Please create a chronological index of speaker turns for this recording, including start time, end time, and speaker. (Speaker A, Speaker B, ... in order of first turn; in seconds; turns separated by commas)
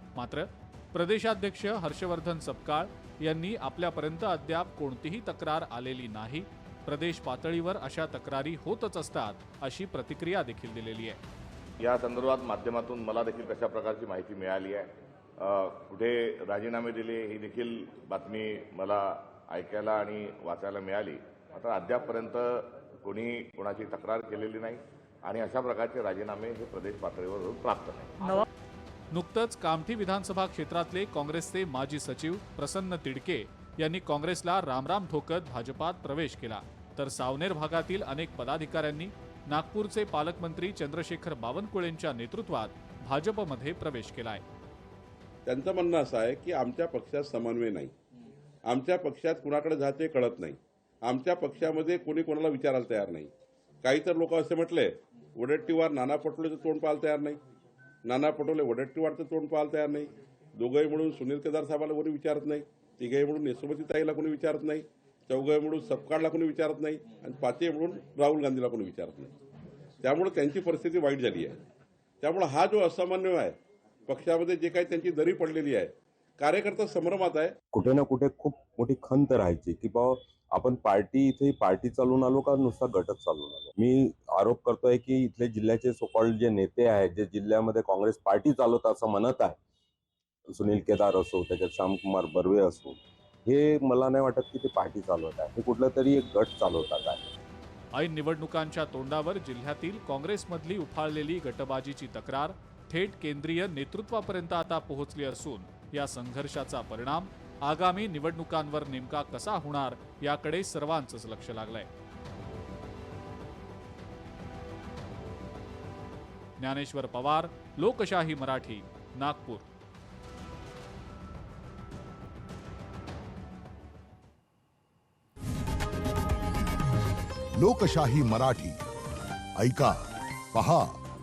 Speaker A: 0.2-11.2, Speaker B: 11.8-28.3, Speaker A: 29.1-44.4, Speaker C: 45.5-47.9, Speaker C: 48.7-53.3, Speaker C: 53.8-57.4, Speaker C: 58.0-69.3, Speaker C: 70.0-71.6, Speaker C: 72.2-73.6, Speaker C: 74.1-77.6, Speaker D: 77.8-89.6, Speaker D: 90.5-97.3, Speaker A: 97.9-111.9, Speaker A: 116.6-119.7, Speaker E: 127.6-128.8, Speaker E: 129.6-130.0, Speaker E: 130.5-131.0